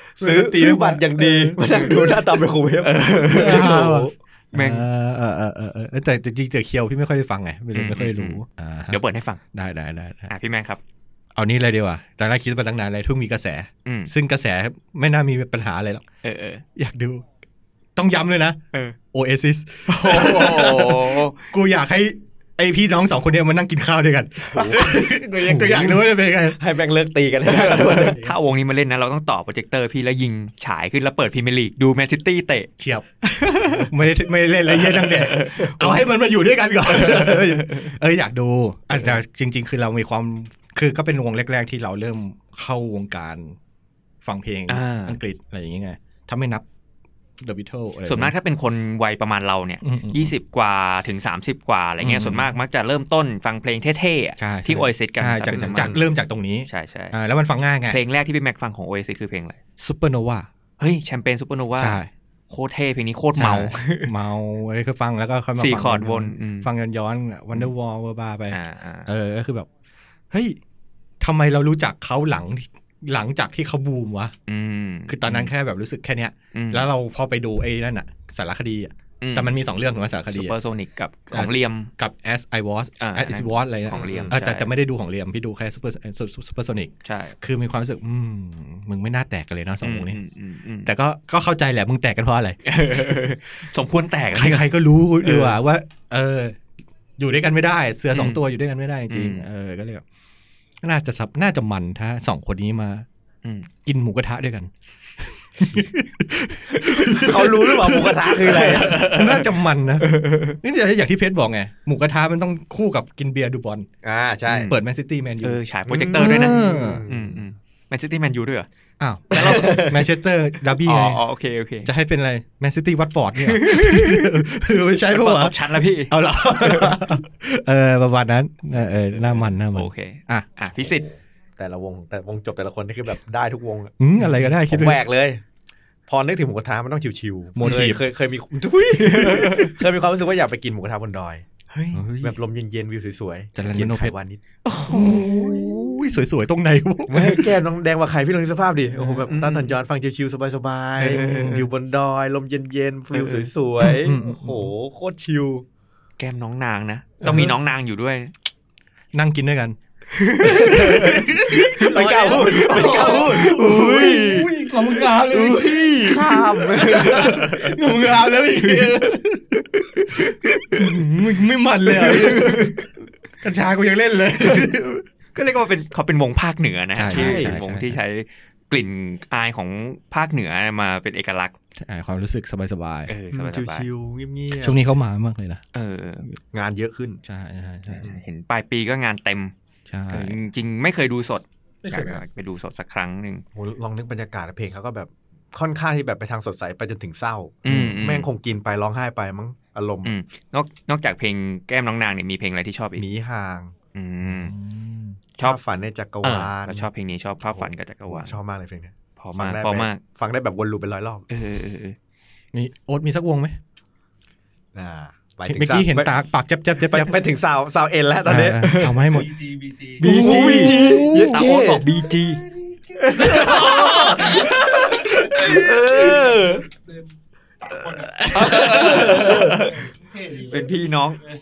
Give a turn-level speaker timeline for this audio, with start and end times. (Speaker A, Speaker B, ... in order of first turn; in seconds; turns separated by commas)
Speaker A: 0.2-4.1, Speaker B: 0.2-2.3, Speaker C: 2.8-3.8, Speaker B: 3.3-9.0, Speaker C: 4.5-4.9, Speaker C: 7.7-9.4, Speaker B: 9.5-10.3, Speaker C: 10.3-10.8, Speaker B: 11.3-16.1, Speaker C: 13.9-14.1, Speaker C: 16.2-16.6, Speaker B: 16.8-17.2, Speaker B: 18.0-18.6, Speaker B: 19.1-26.6, Speaker C: 19.9-21.5, Speaker A: 24.5-28.2, Speaker C: 27.5-32.7, Speaker B: 27.8-28.3, Speaker B: 32.8-33.1, Speaker C: 33.2-33.9, Speaker B: 33.7-43.6, Speaker C: 34.7-36.1, Speaker C: 36.9-37.9, Speaker B: 44.2-46.6, Speaker C: 44.7-45.2, Speaker B: 47.4-48.3, Speaker C: 48.1-56.1, Speaker B: 49.8-50.3, Speaker B: 52.0-52.6, Speaker B: 54.4-58.0, Speaker C: 56.7-57.1, Speaker C: 57.9-59.6, Speaker B: 59.8-60.5, Speaker C: 60.8-64.1, Speaker B: 61.8-62.1, Speaker B: 63.4-69.7, Speaker C: 65.6-66.7, Speaker C: 68.5-69.1, Speaker B: 70.3-70.6, Speaker B: 71.2-74.3, Speaker C: 74.5-75.5, Speaker B: 75.1-80.5, Speaker C: 76.5-76.9, Speaker C: 79.2-79.6, Speaker C: 80.3-81.9, Speaker B: 81.3-90.2, Speaker C: 83.0-84.7, Speaker A: 83.9-84.3, Speaker C: 87.0-87.4, Speaker C: 89.8-90.9, Speaker B: 90.8-92.6, Speaker C: 92.6-95.6, Speaker B: 94.3-96.6, Speaker B: 97.2-100.0, Speaker C: 98.1-98.4, Speaker C: 99.1-99.5, Speaker B: 100.8-103.1, Speaker C: 103.4-103.7, Speaker B: 103.8-113.9, Speaker C: 106.8-107.3, Speaker A: 107.2-109.0, Speaker C: 108.0-110.6, Speaker A: 114.0-114.7, Speaker C: 114.5-114.8, Speaker B: 114.7-117.1, Speaker C: 115.4-118.7, Speaker A: 116.2-117.4, Speaker B: 119.0-121.2, Speaker C: 119.3-119.9, Speaker A: 119.3-120.0, Speaker C: 120.8-121.9, Speaker B: 121.8-125.6, Speaker C: 123.4-124.4, Speaker C: 125.1-127.0, Speaker B: 126.1-130.5, Speaker C: 129.7-131.1, Speaker A: 130.8-134.0, Speaker B: 134.0-135.0, Speaker C: 134.2-134.5, Speaker A: 134.7-135.4, Speaker A: 136.1-141.5, Speaker B: 137.6-138.0, Speaker C: 139.0-139.8, Speaker B: 141.9-142.4, Speaker A: 142.2-144.4, Speaker B: 143.6-144.1, Speaker C: 144.7-145.4, Speaker B: 144.8-147.6, Speaker A: 145.1-145.7, Speaker A: 147.1-155.7, Speaker B: 149.0-149.2, Speaker C: 149.3-149.7, Speaker C: 151.0-151.7, Speaker C: 153.1-153.5, Speaker B: 153.8-154.7, Speaker C: 156.2-158.3, Speaker B: 157.2-157.5, Speaker B: 159.1-159.8, Speaker C: 160.1-163.6, Speaker B: 160.4-169.6, Speaker A: 160.4-164.5, Speaker A: 165.1-167.4, Speaker C: 166.1-167.8, Speaker C: 168.5-169.0, Speaker C: 169.8-170.8, Speaker B: 170.1-172.7, Speaker C: 172.0-172.8, Speaker B: 173.4-175.1, Speaker C: 175.3-181.6, Speaker B: 176.9-178.0, Speaker A: 177.1-177.6, Speaker B: 181.8-183.1, Speaker C: 183.1-183.9, Speaker A: 183.3-184.8, Speaker B: 184.5-185.6, Speaker C: 185.7-186.3, Speaker A: 186.5-187.2, Speaker B: 187.2-188.1, Speaker C: 187.9-189.5, Speaker B: 189.9-190.4, Speaker C: 190.1-193.4, Speaker B: 191.8-192.2, Speaker A: 193.6-200.1, Speaker C: 197.6-198.3, Speaker B: 197.7-198.0, Speaker C: 200.1-203.1, Speaker A: 203.0-203.7, Speaker C: 203.9-204.6, Speaker B: 204.3-205.2, Speaker A: 205.4-206.9, Speaker C: 206.2-208.3, Speaker A: 207.5-211.3, Speaker C: 209.2-210.0, Speaker C: 211.3-212.0, Speaker B: 212.5-213.6, Speaker A: 214.8-216.2, Speaker B: 215.5-217.3, Speaker A: 216.8-221.9, Speaker B: 218.2-219.5, Speaker C: 218.7-219.1, Speaker C: 219.8-222.4, Speaker B: 220.0-221.5, Speaker A: 222.9-226.7, Speaker C: 223.2-225.7, Speaker B: 223.2-226.2, Speaker A: 227.8-229.6, Speaker B: 227.9-229.5, Speaker C: 228.3-231.2